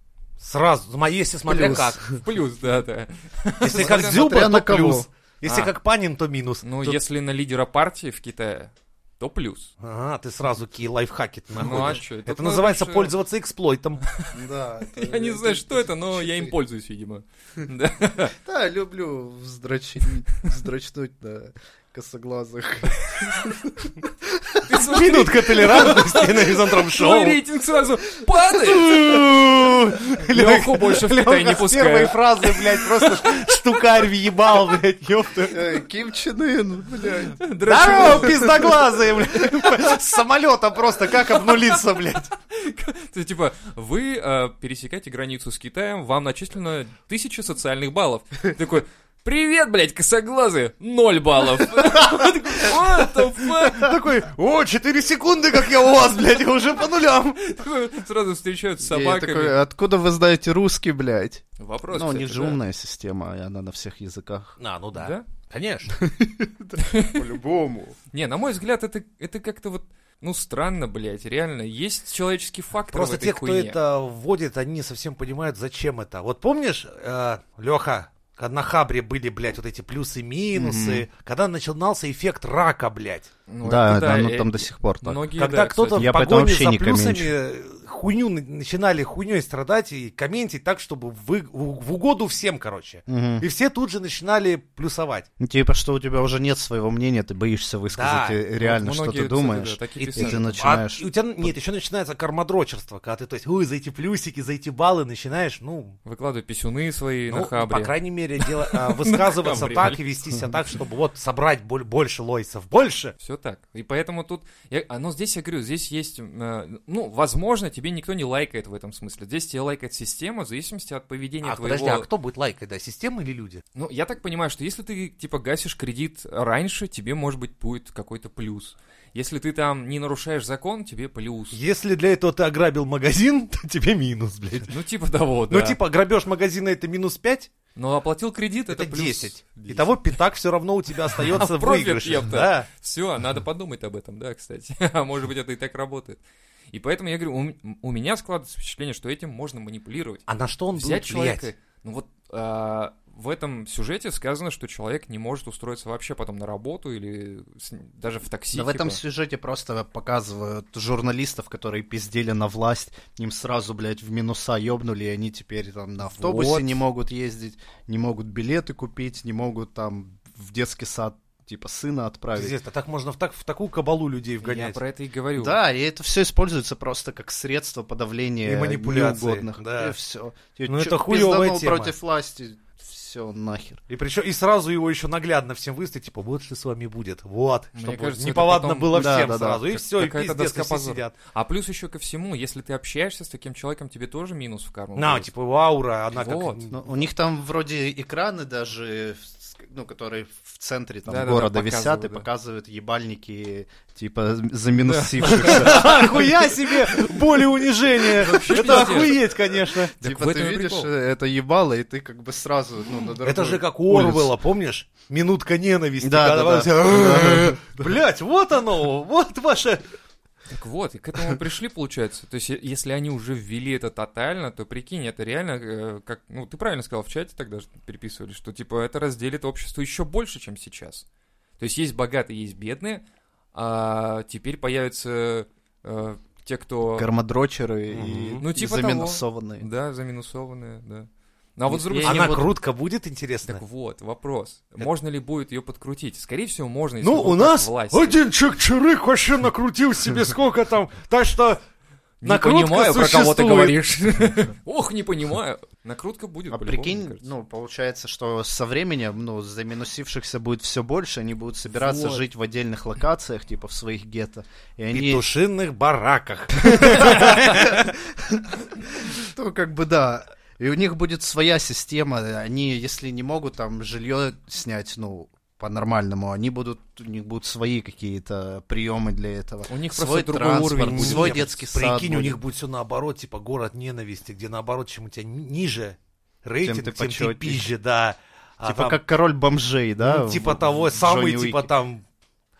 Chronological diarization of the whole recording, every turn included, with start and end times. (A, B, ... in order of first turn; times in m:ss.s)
0:00.4-0:02.0 A
0:01.5-0:02.0 B
0:01.5-0:04.3 C
0:03.6-0:07.0 A
0:03.7-0:05.1 B
0:05.4-0:05.7 C
0:06.6-0:09.7 C
0:09.8-0:14.0 A
0:11.6-0:13.1 C
0:14.3-0:16.5 B
0:15.0-0:18.3 C
0:18.3-0:24.8 B
0:24.6-0:29.1 C
0:24.9-0:27.4 A
0:28.6-0:35.6 A
0:30.3-0:33.2 C
0:35.5-0:38.7 B
0:37.4-0:38.6 C
0:37.6-0:42.3 A
0:42.5-0:53.9 C
0:53.7-0:57.4 A
0:57.4-0:59.6 C
0:58.8-1:04.6 B
1:01.6-1:02.6 C
1:04.6-1:05.9 A
1:04.9-1:05.2 C
1:06.0-1:08.0 B
1:06.8-1:07.2 C
1:08.1-1:13.8 C
1:12.9-1:23.3 A
1:20.5-1:21.0 B
1:23.5-1:26.2 C
1:23.6-1:25.2 B
1:25.4-1:35.3 A
1:25.9-1:27.3 B
1:33.1-1:33.4 B
1:35.4-1:41.5 B
1:37.9-1:38.4 A
1:38.6-1:40.5 C
1:40.0-1:46.0 A
1:46.0-1:50.0 C
1:47.3-1:53.1 A
1:53.2-2:02.1 C
2:01.4-2:03.6 A
2:03.7-2:11.6 C
2:11.5-2:14.7 A
2:14.7-2:15.8 C
2:15.5-2:17.5 A
2:17.8-2:20.0 C
2:18.7-2:22.7 A
2:21.3-2:26.2 C
2:26.7-2:30.2 C
2:30.3-2:31.5 A
2:30.7-2:39.0 C
2:38.5-2:52.5 B
2:46.0-2:46.8 C
2:52.3-2:54.8 A
2:54.4-2:55.6 C
2:55.4-3:03.8 B
2:58.4-2:59.9 A
3:00.7-3:01.9 A
3:03.9-3:11.1 A
3:07.8-3:15.3 C
3:08.9-3:09.6 B
3:15.0-3:16.8 A
3:16.1-3:16.6 C
3:16.7-3:26.3 B
3:21.1-3:22.2 C
3:24.8-3:26.3 C
3:25.2-3:29.9 A
3:28.2-3:29.2 C
3:28.3-3:29.3 B
3:29.9-3:34.3 B
3:30.0-3:30.9 C
3:33.2-3:39.8 A
3:36.0-3:38.0 B
3:40.5-3:51.0 C
3:51.6-3:57.1 C
3:56.9-3:59.6 B
3:57.9-3:58.4 A
3:58.4-4:02.4 C
4:01.7-4:02.5 B
4:02.0-4:03.6 A
4:03.4-4:08.2 C
4:07.0-4:11.6 A
4:12.2-4:17.2 C
4:12.2-4:13.8 A
4:16.5-4:25.2 B
4:21.7-4:22.2 C
4:24.9-4:27.8 A
4:26.6-4:42.4 B
4:39.7-4:41.4 C
4:40.8-4:49.0 A
4:46.6-4:47.7 B
4:48.6-4:51.7 B
4:50.0-4:52.0 A